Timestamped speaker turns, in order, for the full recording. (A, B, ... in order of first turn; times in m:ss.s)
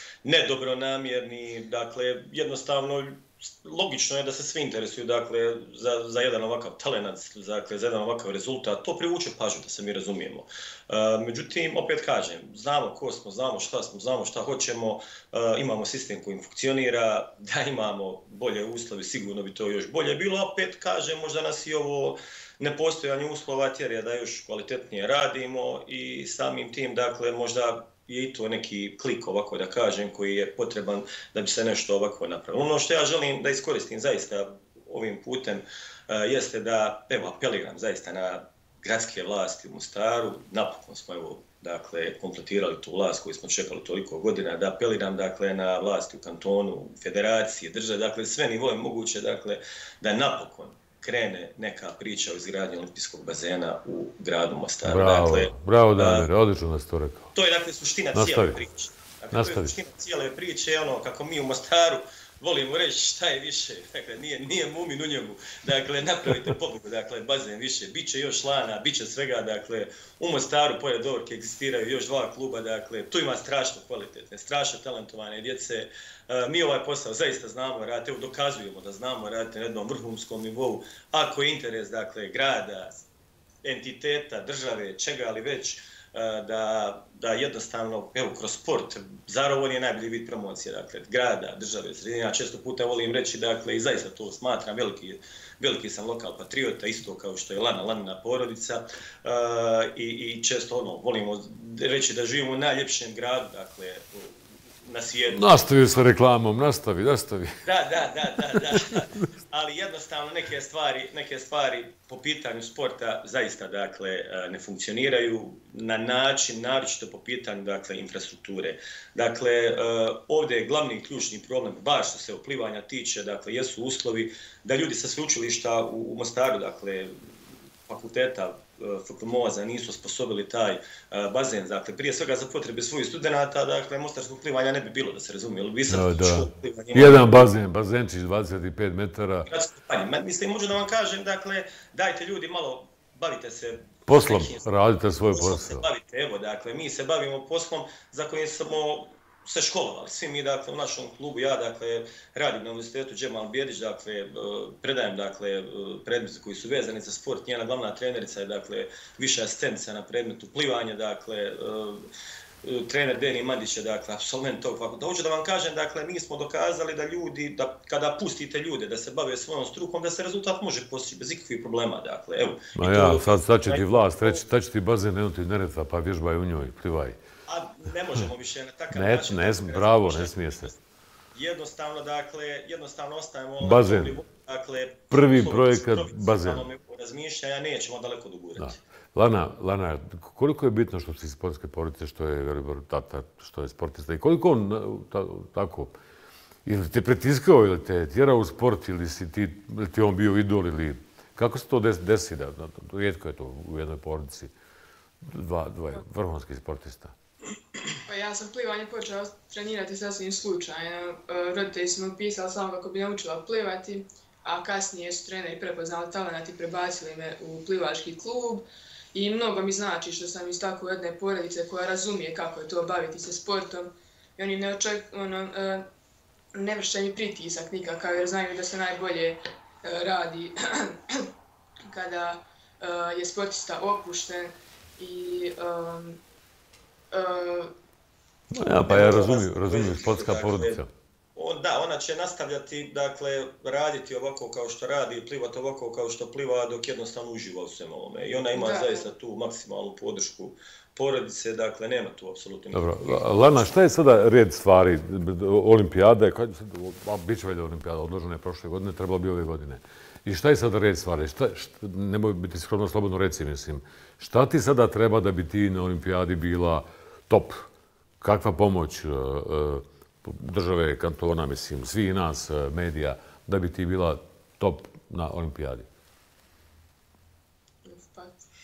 0:00.2-0:56.3 A
0:54.8-0:57.3 B
0:57.3-1:23.0 A
0:58.1-0:58.6 B
0:59.3-0:59.7 B
1:23.6-1:45.6 A
1:45.3-1:47.6 B
1:47.6-2:07.2 A
2:07.9-2:17.5 A
2:15.9-2:19.5 B
2:19.5-2:42.1 A
2:24.1-2:25.8 B
2:42.6-2:54.4 A
2:52.8-2:57.2 B
2:57.5-3:00.8 A
2:58.9-3:00.7 B
3:01.3-3:08.8 A
3:03.6-3:04.2 B
3:05.1-3:06.6 B
3:08.6-3:16.0 B
3:16.6-3:24.5 B
3:25.2-3:27.1 B
3:28.1-3:45.8 C
3:46.6-3:51.3 C
3:51.9-3:56.2 C
3:57.1-3:57.7 C
3:58.5-4:00.9 B
3:58.9-4:00.8 A
4:01.4-4:13.6 A
4:08.5-4:09.1 C
4:12.7-4:27.7 B
4:28.2-4:35.9 B
4:37.8-4:38.4 C